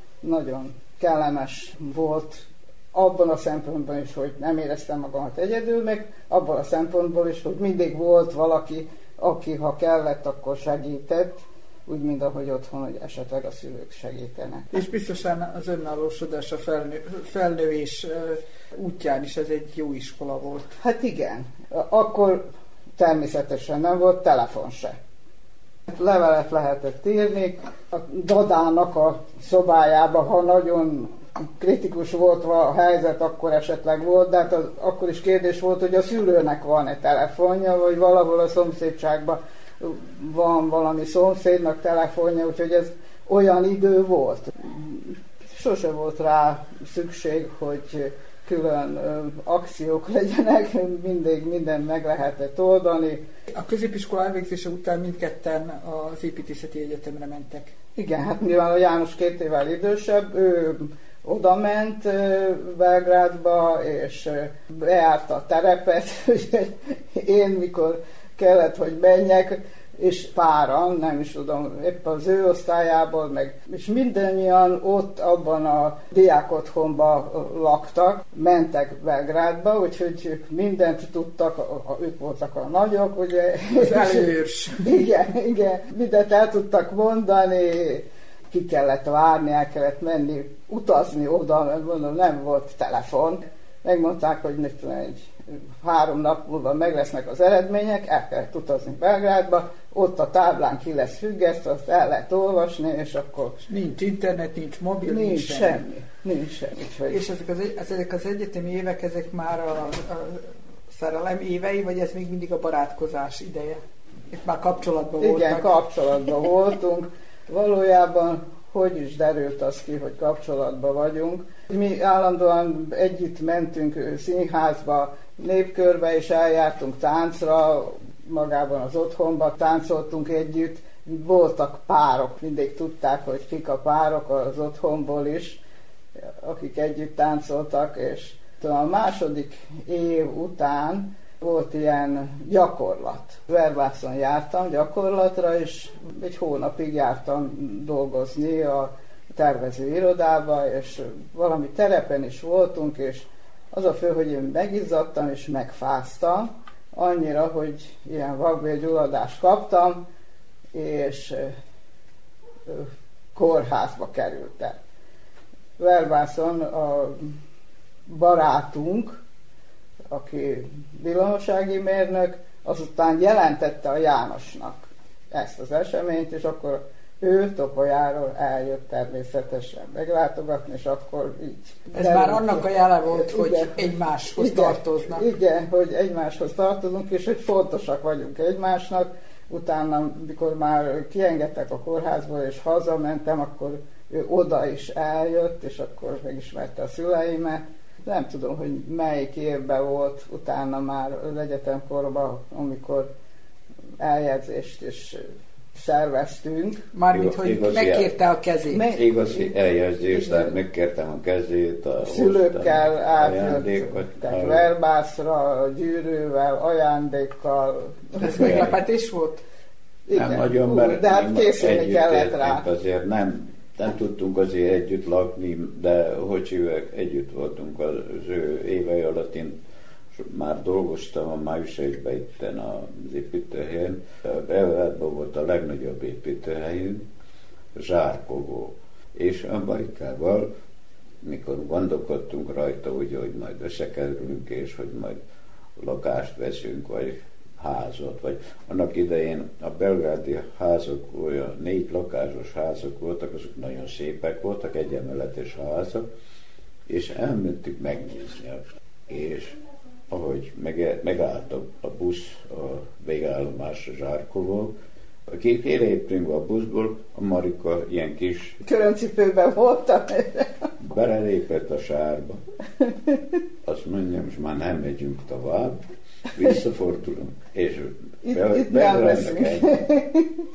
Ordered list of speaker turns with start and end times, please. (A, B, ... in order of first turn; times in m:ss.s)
0:00.2-0:14.7 A
0:14.7-0:20.6 B
0:20.8-0:22.4 A
0:23.0-0:25.0 A
0:25.9-0:53.2 A
0:53.5-0:57.7 B
0:57.9-1:43.6 A
1:23.7-1:24.8 B
1:43.7-1:45.8 B
1:45.0-1:47.2 A
1:47.1-1:55.8 B
1:55.2-2:15.6 A
2:16.4-2:40.0 A
2:40.7-2:41.5 A
2:42.7-2:44.8 A
2:45.8-2:47.4 A
2:48.1-2:49.2 A
2:50.1-3:23.1 A
3:01.9-3:05.3 B
3:24.0-3:26.9 A
3:26.9-3:28.8 B
3:27.1-3:28.2 C
3:28.7-3:29.5 A
3:28.9-3:34.7 C
3:30.1-3:30.5 A
3:32.0-3:38.7 A
3:38.2-3:39.4 B
3:38.4-3:38.8 C
3:40.1-3:42.7 A
3:40.1-3:49.6 C
3:50.1-3:57.1 C
3:57.7-4:00.5 C
4:01.2-4:05.2 C
4:05.8-4:16.1 C
4:16.9-4:24.7 C
4:25.3-4:28.6 C
4:28.6-4:30.6 A
4:30.8-4:32.4 C
4:33.6-4:39.7 C
4:38.2-4:40.2 A